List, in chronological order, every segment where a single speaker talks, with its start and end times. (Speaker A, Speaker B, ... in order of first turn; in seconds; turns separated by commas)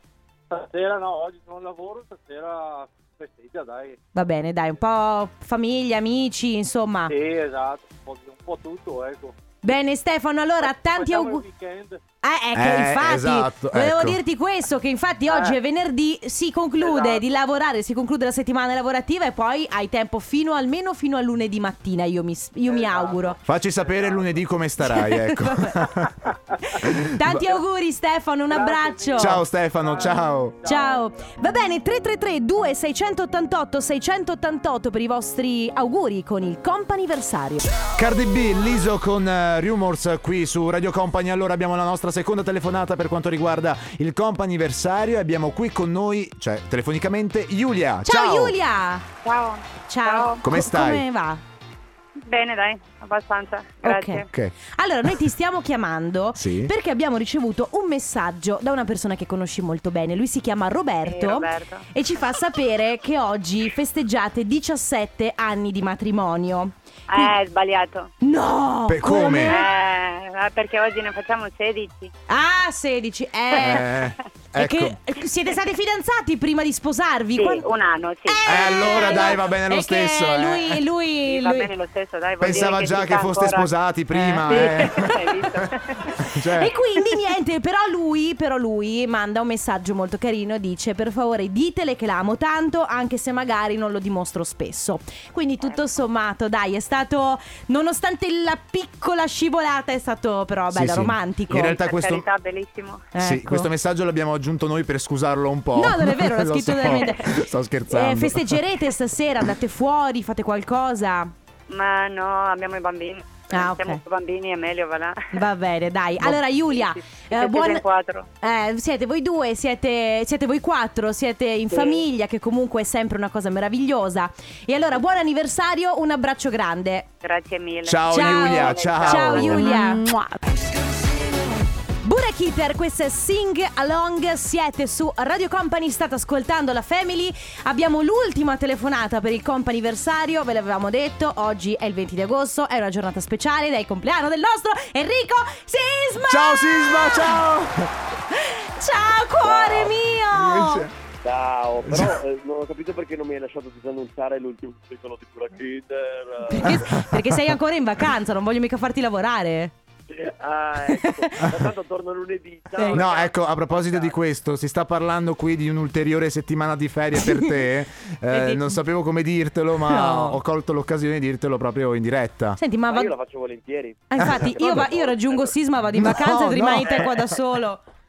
Speaker A: 0.5-4.3, Speaker B: 4.2-7.1, Speaker A: 7.1-9.4, Speaker B: 9.6-11.4, Speaker A: 10.6-12.0, Speaker B: 12.2-23.4, Speaker C: 12.5-14.2, Speaker A: 15.3-15.6, Speaker A: 16.8-17.3, Speaker A: 22.7-24.4, Speaker C: 23.4-26.3, Speaker B: 24.8-26.0, Speaker A: 26.3-26.7, Speaker B: 26.6-29.4, Speaker C: 26.8-27.4, Speaker A: 28.5-31.1, Speaker C: 29.2-30.6, Speaker B: 30.6-37.7, Speaker C: 37.9-48.6, Speaker B: 48.0-49.1, Speaker D: 49.2-50.4, Speaker B: 49.9-51.4, Speaker C: 50.4-51.1, Speaker D: 52.2-54.3, Speaker B: 53.8-67.4, Speaker C: 54.3-54.5, Speaker C: 56.4-56.7, Speaker D: 61.0-61.9, Speaker D: 67.1-68.1, Speaker B: 68.2-69.7, Speaker C: 68.9-69.6, Speaker D: 69.4-72.1, Speaker B: 72.3-73.9, Speaker C: 73.6-75.0, Speaker B: 74.5-77.7, Speaker D: 77.4-79.4, Speaker B: 78.3-81.7, Speaker C: 78.5-80.8, Speaker D: 81.2-83.7, Speaker C: 82.4-86.8, Speaker B: 82.5-82.8, Speaker B: 84.1-85.1, Speaker D: 84.5-86.3, Speaker B: 86.3-101.8, Speaker D: 95.6-95.9, Speaker C: 100.7-102.3, Speaker D: 101.6-103.1, Speaker B: 103.1-103.7, Speaker C: 103.2-108.6, Speaker B: 105.8-111.3, Speaker D: 111.7-115.4, Speaker B: 113.5-114.0, Speaker B: 115.3-117.8, Speaker D: 116.7-118.3, Speaker B: 118.4-127.1, Speaker D: 121.7-122.0, Speaker D: 127.2-129.6, Speaker C: 127.8-130.0, Speaker B: 128.1-130.1, Speaker B: 132.0-147.4, Speaker C: 146.3-147.9, Speaker B: 148.3-150.9, Speaker E: 149.4-150.0, Speaker C: 150.3-150.9, Speaker E: 151.2-156.9, Speaker C: 151.9-152.2, Speaker B: 156.5-159.7, Speaker C: 156.7-157.3, Speaker E: 160.1-164.2, Speaker B: 162.8-163.0, Speaker C: 162.9-172.6, Speaker B: 167.2-167.5, Speaker B: 168.3-168.7, Speaker B: 169.8-170.4, Speaker B: 172.6-173.1, Speaker E: 172.9-175.6, Speaker B: 174.1-177.8, Speaker C: 174.2-174.9, Speaker C: 175.9-177.1